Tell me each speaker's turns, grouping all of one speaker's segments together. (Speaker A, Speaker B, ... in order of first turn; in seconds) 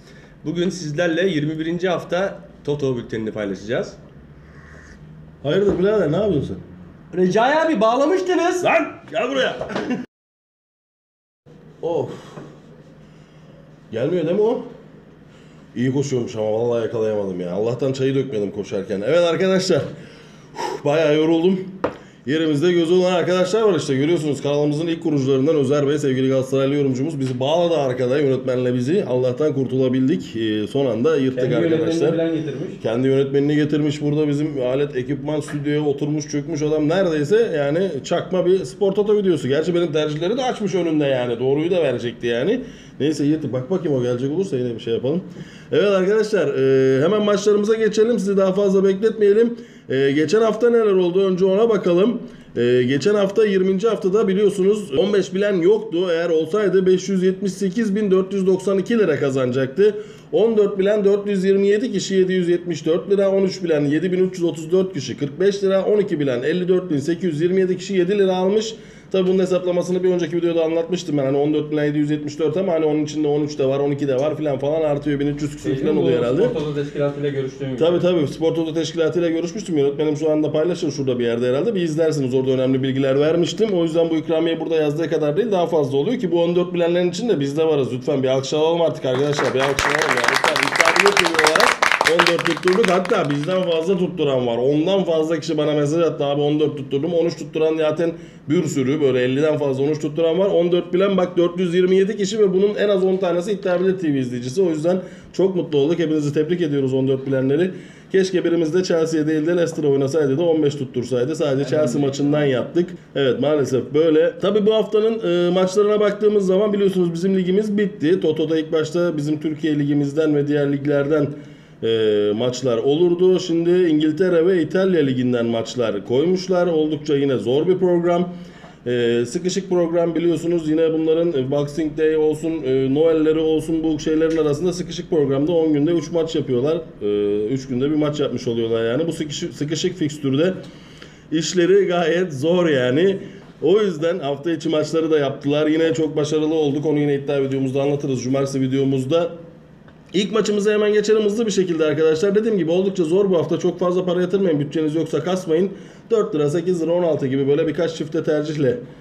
Speaker A: 0.4-4.0, 7.1-8.7, 31.4-32.8, 75.6-78.0
Speaker B: 5.4-6.6, 8.6-9.6, 11.8-12.2, 13.9-14.7, 15.7-19.9, 20.6-21.7, 22.2-32.2, 32.8-76.5, 77.8-128.3, 128.8-140.6, 141.3-149.3, 150.1-158.8